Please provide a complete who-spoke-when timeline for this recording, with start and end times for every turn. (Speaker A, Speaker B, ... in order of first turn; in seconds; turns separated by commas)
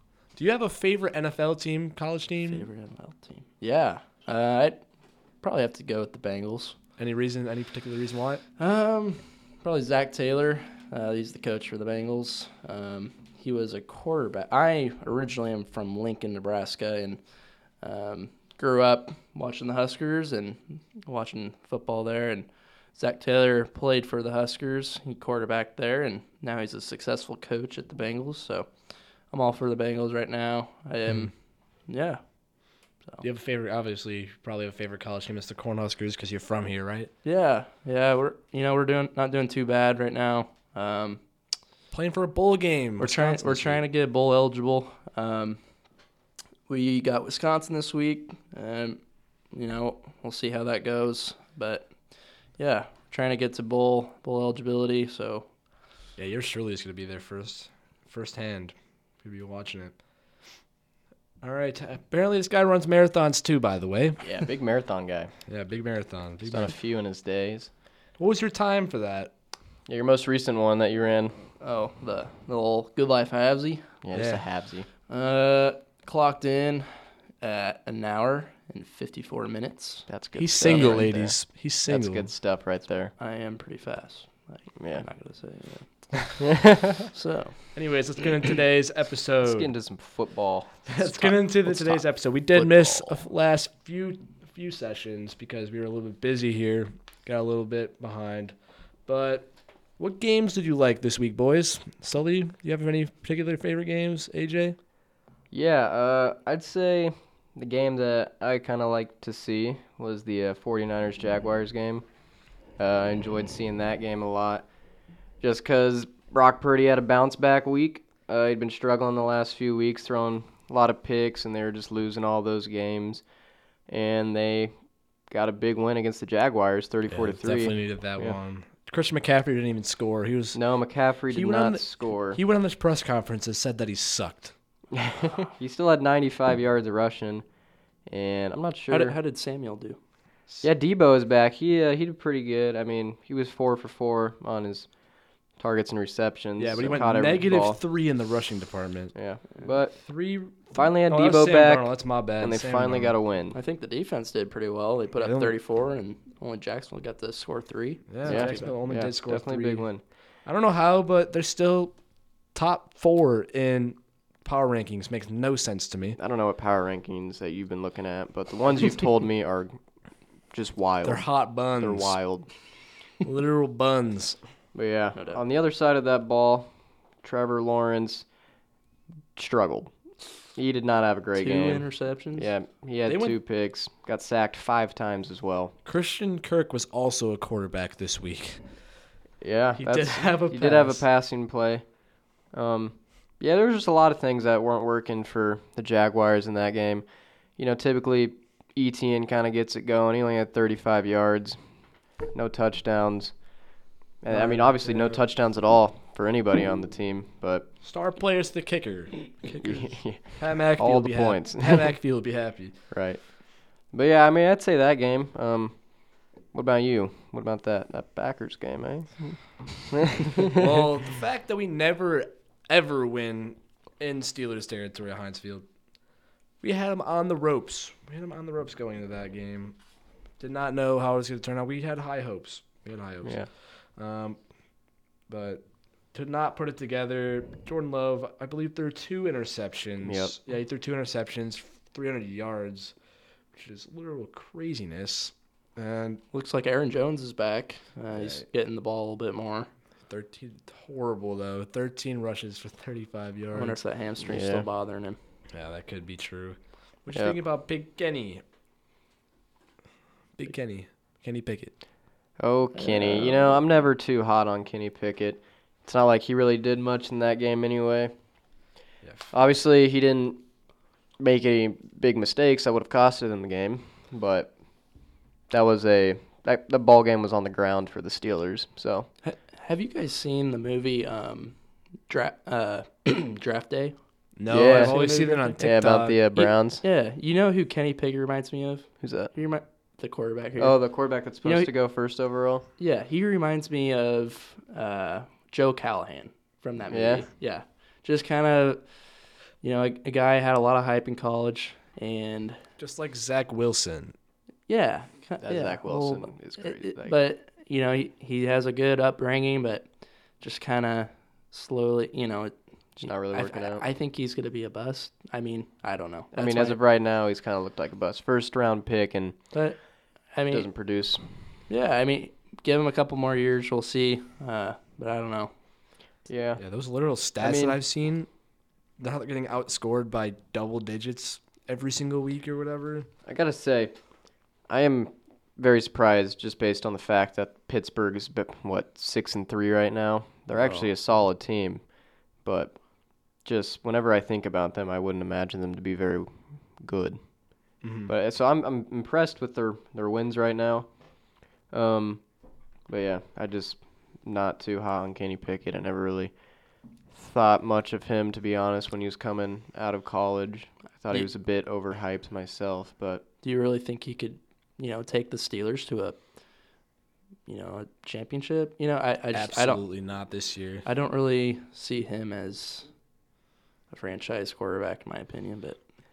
Speaker A: 0.4-2.7, Speaker B: 2.5-4.8, Speaker B: 5.4-6.8, Speaker A: 7.0-8.4, Speaker B: 8.6-17.2, Speaker B: 17.8-28.7, Speaker B: 29.3-31.3, Speaker B: 31.9-32.2, Speaker A: 33.2-37.1, Speaker B: 37.2-41.2, Speaker A: 41.9-43.8, Speaker B: 43.0-45.6, Speaker B: 46.7-49.0, Speaker B: 49.5-52.0, Speaker B: 52.5-55.5, Speaker A: 56.2-60.0, Speaker A: 61.4-64.3, Speaker C: 64.2-65.3, Speaker A: 65.5-66.7, Speaker C: 66.5-67.7, Speaker A: 68.2-69.3, Speaker C: 69.9-71.4, Speaker B: 71.6-74.0, Speaker C: 74.0-74.9, Speaker A: 74.1-74.4, Speaker B: 75.1-76.9, Speaker B: 77.4-80.1, Speaker C: 80.1-83.1, Speaker A: 80.4-82.3, Speaker B: 80.6-81.1, Speaker B: 83.2-86.6, Speaker C: 84.8-85.1, Speaker C: 86.5-87.1, Speaker B: 87.1-87.8, Speaker A: 87.7-89.7, Speaker C: 89.5-92.0, Speaker A: 90.9-104.8, Speaker B: 92.6-93.2, Speaker C: 105.5-112.1, Speaker C: 112.8-114.7, Speaker C: 115.4-123.2, Speaker C: 123.9-124.7, Speaker C: 125.3-128.3, Speaker A: 127.1-130.6, Speaker C: 130.5-132.4, Speaker A: 131.3-134.5, Speaker C: 134.9-137.4, Speaker C: 138.1-139.2, Speaker B: 138.9-140.0, Speaker C: 140.6-144.9, Speaker C: 145.6-147.8, Speaker A: 146.6-149.1, Speaker C: 149.2-150.0, Speaker A: 150.0-153.1, Speaker C: 150.7-153.6, Speaker B: 153.5-158.7, Speaker A: 155.2-155.5, Speaker A: 158.1-159.9, Speaker C: 158.2-160.0, Speaker A: 160.4-161.9, Speaker A: 162.5-166.2, Speaker C: 166.2-169.8, Speaker C: 170.5-172.5, Speaker A: 171.0-172.2, Speaker A: 173.2-174.4, Speaker C: 174.7-176.7, Speaker C: 177.2-178.3, Speaker C: 179.4-179.9, Speaker C: 180.6-181.8, Speaker B: 181.4-182.5, Speaker C: 182.4-185.8, Speaker A: 183.1-183.4, Speaker A: 185.8-188.7, Speaker C: 189.4-191.8, Speaker A: 189.8-191.0, Speaker C: 192.5-197.1, Speaker C: 197.6-201.6, Speaker C: 202.3-203.4, Speaker C: 204.2-207.7, Speaker A: 204.3-205.2, Speaker A: 207.8-212.8, Speaker C: 209.6-211.9, Speaker C: 212.9-220.6, Speaker A: 220.5-225.7, Speaker A: 226.6-229.8, Speaker A: 230.4-234.4, Speaker C: 233.2-233.5, Speaker A: 235.3-242.9, Speaker C: 240.0-240.3, Speaker A: 243.5-246.2, Speaker B: 246.3-249.7, Speaker A: 248.1-248.4, Speaker A: 250.1-253.8, Speaker B: 253.5-255.2, Speaker C: 254.2-254.7, Speaker A: 255.5-258.4, Speaker A: 260.4-261.8, Speaker C: 262.4-268.1, Speaker B: 262.8-263.5, Speaker C: 269.3-270.4, Speaker C: 271.2-274.6, Speaker C: 275.5-279.1, Speaker B: 279.2-285.6, Speaker A: 284.4-286.2, Speaker C: 284.5-285.0, Speaker C: 285.6-286.8, Speaker B: 286.4-291.7, Speaker C: 289.0-289.3, Speaker C: 290.6-292.7, Speaker B: 292.8-302.6, Speaker C: 296.9-297.3, Speaker A: 302.8-304.1, Speaker B: 304.7-309.9, Speaker C: 305.4-307.2, Speaker B: 310.4-316.8, Speaker C: 313.0-313.9, Speaker C: 316.3-319.5, Speaker B: 319.5-320.7, Speaker C: 320.5-321.2, Speaker B: 321.7-325.5, Speaker C: 326.3-326.6, Speaker A: 326.6-328.3, Speaker C: 327.4-327.8, Speaker A: 329.0-333.1, Speaker C: 333.2-334.0, Speaker C: 334.7-341.8, Speaker C: 342.4-342.8, Speaker C: 343.4-347.2, Speaker A: 347.8-348.1, Speaker C: 348.1-351.1, Speaker C: 351.7-352.2, Speaker C: 352.9-356.3, Speaker C: 357.1-363.2, Speaker B: 363.4-366.2, Speaker B: 367.5-369.8, Speaker A: 369.3-370.9, Speaker B: 370.9-372.9, Speaker B: 373.9-375.9